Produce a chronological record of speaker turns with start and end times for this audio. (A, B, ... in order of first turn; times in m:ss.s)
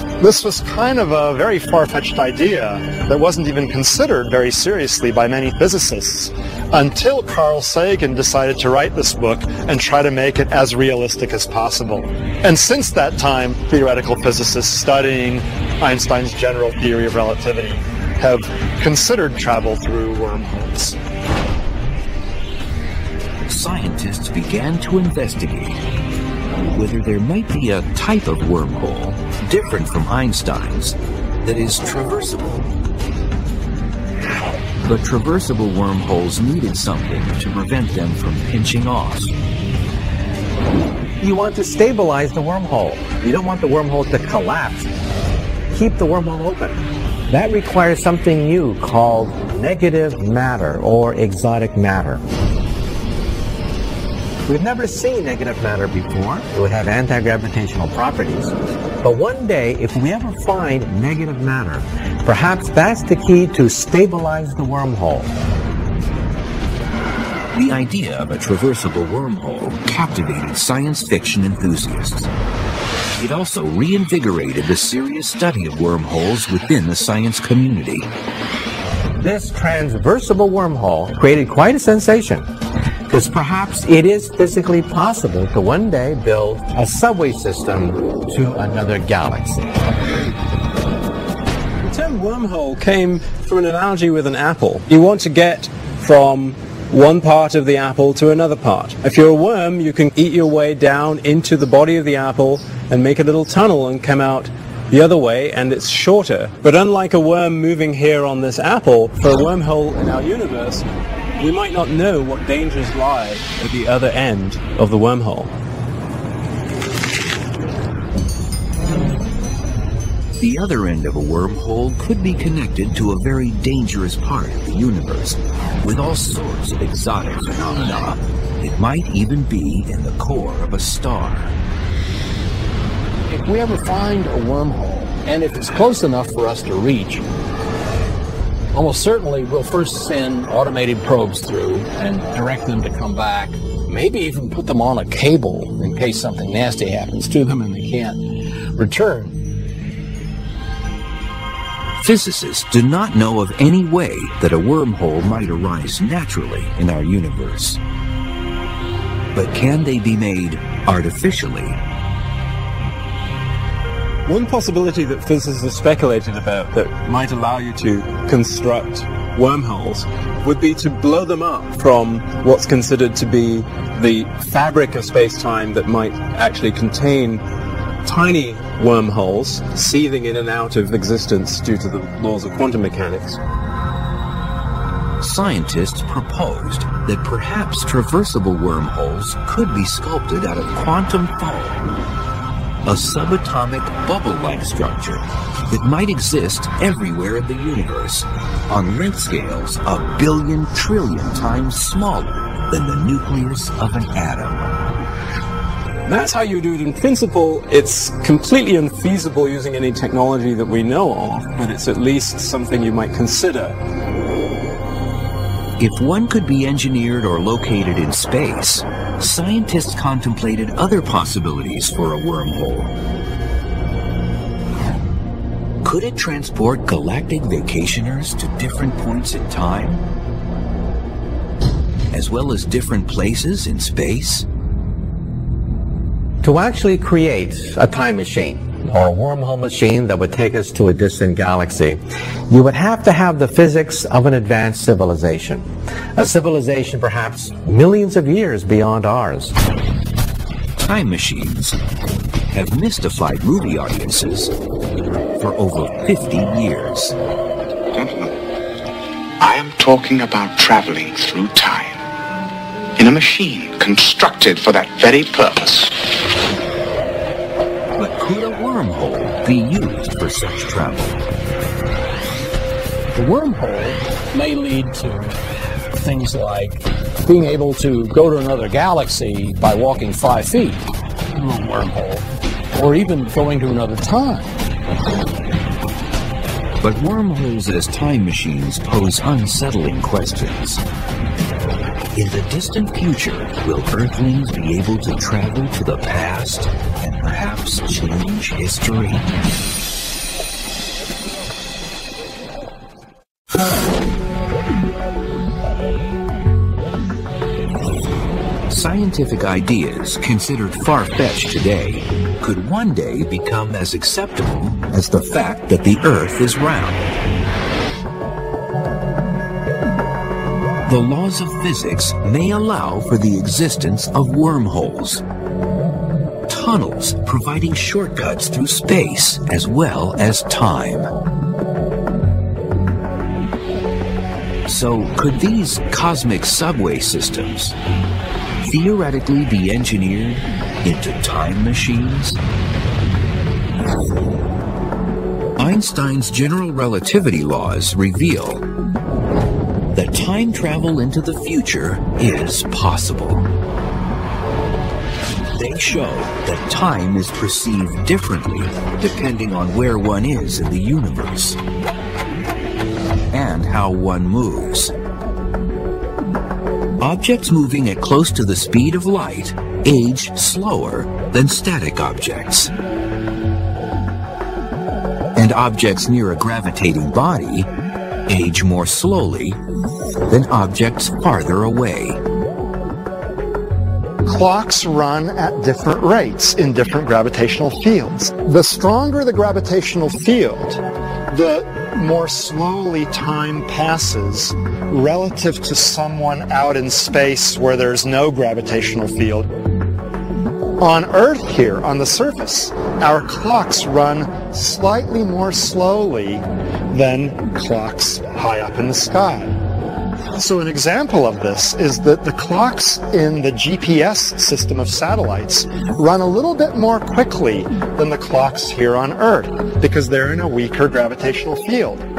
0:00.2-0:21.0 A
0:23.5-0:25.8 B
0:26.7-0:32.7 B
0:34.8-0:39.3 B
0:41.2-0:44.9 C
0:45.7-0:52.2 C
0:54.4-1:05.3 C
1:07.5-1:12.3 B
1:13.2-1:18.1 B
1:19.2-1:22.5 C
1:23.1-1:29.8 C
1:31.8-1:50.8 D
1:51.4-1:55.5 D
2:00.4-2:11.5 B
2:13.3-2:17.2 E
2:18.7-2:29.4 E
2:32.0-2:37.8 B
2:39.3-2:41.8 B
2:44.2-2:57.4 D
2:58.0-3:03.4 D
3:05.2-3:11.8 B
3:12.8-3:24.7 B
3:26.1-3:33.8 D
3:35.8-3:42.9 B
3:45.8-3:50.0 B
3:52.1-3:54.4 B
3:56.4-4:09.6 C
4:10.8-4:11.8 B
4:12.5-4:14.5 B
4:15.4-4:17.2 B
4:17.9-4:18.3 F
4:19.4-4:22.0 F
4:23.0-4:26.0 F
4:28.0-4:31.2 B
4:33.1-4:35.4 E
4:35.9-4:44.6 E
4:46.8-4:50.8 B
4:52.2-4:59.3 B
5:08.7-5:17.0 B
5:20.8-5:25.2 B
5:26.5-5:31.1 B
5:34.7-5:37.8 B
5:38.6-5:42.4 B
5:45.6-5:48.7 B
5:49.9-5:53.5 B
5:55.5-6:01.6 B
6:03.3-6:04.9 B
6:07.0-6:12.7 B
6:15.3-6:17.7 B
6:18.3-6:19.6 B
6:20.3-6:22.2 B
6:24.2-6:39.5 A
6:40.8-6:49.6 A
6:50.4-7:02.1 A